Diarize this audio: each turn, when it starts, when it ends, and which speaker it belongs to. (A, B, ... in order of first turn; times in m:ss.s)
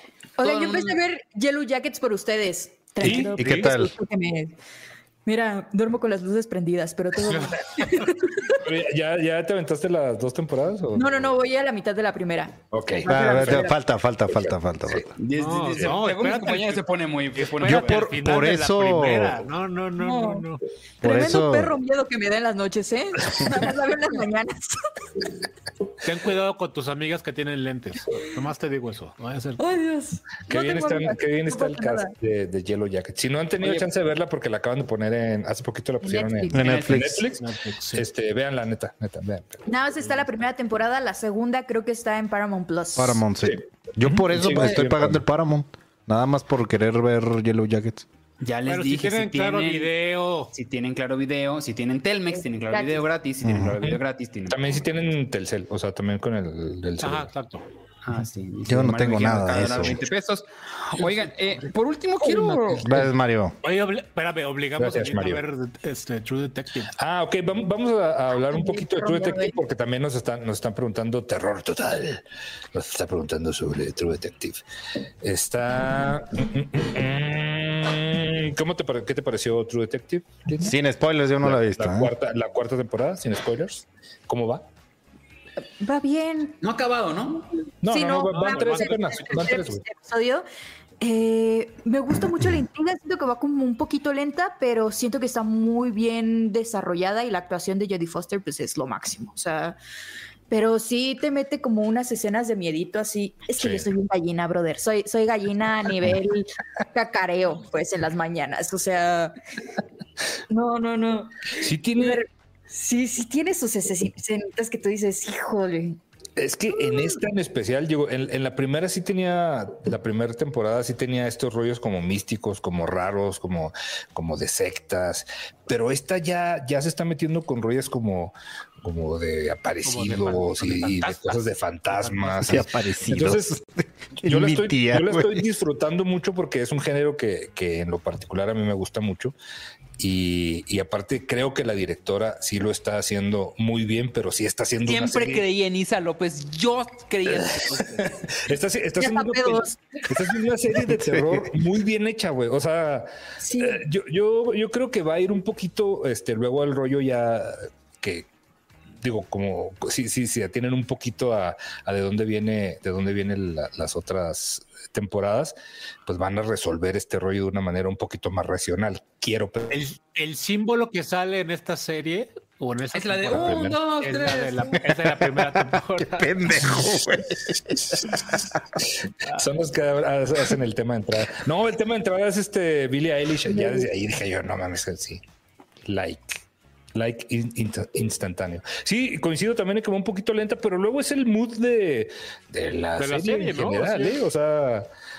0:00.4-0:04.6 A
0:00.4-0:01.0 B
0:03.0-0:03.7 C
0:03.0-0:03.9 D
0:05.3-0:08.6 A
0:08.5-0:11.3 E
0:11.0-0:13.8 A
0:12.7-0:13.7 E
0:13.1-0:15.1 D
0:14.4-0:15.1 E
0:15.2-0:18.2 B
0:15.3-0:16.8 C
0:17.4-0:20.6 C
0:17.6-0:19.4 D
0:20.0-0:20.4 A
0:21.0-0:21.8 D
0:21.0-0:24.8 A
0:26.0-0:29.6 C
0:29.6-0:32.1 A
0:30.5-0:39.6 E
0:33.6-0:33.9 B
0:36.0-0:36.6 A
0:36.5-0:37.3 D
0:36.6-0:37.0 B
0:37.4-0:38.1 C
0:39.7-0:43.2 A
0:43.0-0:48.1 D
0:43.4-0:45.2 E
0:44.4-0:45.0 C
0:48.4-0:49.9 B
0:48.7-0:50.5 C
0:50.5-0:54.9 B
0:52.3-0:53.0 A
0:53.4-0:53.8 D
0:54.5-0:57.3 E
0:57.0-0:57.6 C
0:58.0-1:02.9 B
0:58.7-1:00.0 D
1:02.5-1:02.9 C
1:02.8-1:03.6 D
1:03.6-1:06.9 C
1:04.8-1:05.4 E
1:07.0-1:14.6 E
1:08.5-1:09.6 A
1:15.2-1:20.8 E
1:20.6-1:22.1 D
1:21.4-1:24.7 E
1:25.8-1:26.6 A
1:26.6-1:27.5 B
1:27.8-1:29.8 E
1:27.9-1:30.5 A
1:28.3-1:29.4 C
1:31.0-1:39.8 A
1:40.5-1:49.3 A
1:43.6-1:43.9 E
1:50.5-1:56.0 A
1:51.6-1:52.2 E
1:56.4-2:13.6 E
2:09.8-2:12.6 C
2:12.5-2:15.4 D
2:14.2-2:19.4 E
2:20.0-2:25.4 E
2:24.8-2:28.2 B
2:27.4-2:38.3 E
2:29.0-2:29.8 A
2:30.9-2:31.5 D
2:33.4-2:33.8 A
2:39.0-2:45.6 E
2:46.1-2:49.8 E
2:49.7-2:56.4 C
2:52.9-2:54.8 B
2:53.4-2:53.8 E
2:55.2-2:58.5 D
2:58.8-3:05.2 E
3:05.8-3:06.4 E
3:07.0-3:14.9 E
3:13.0-3:14.2 C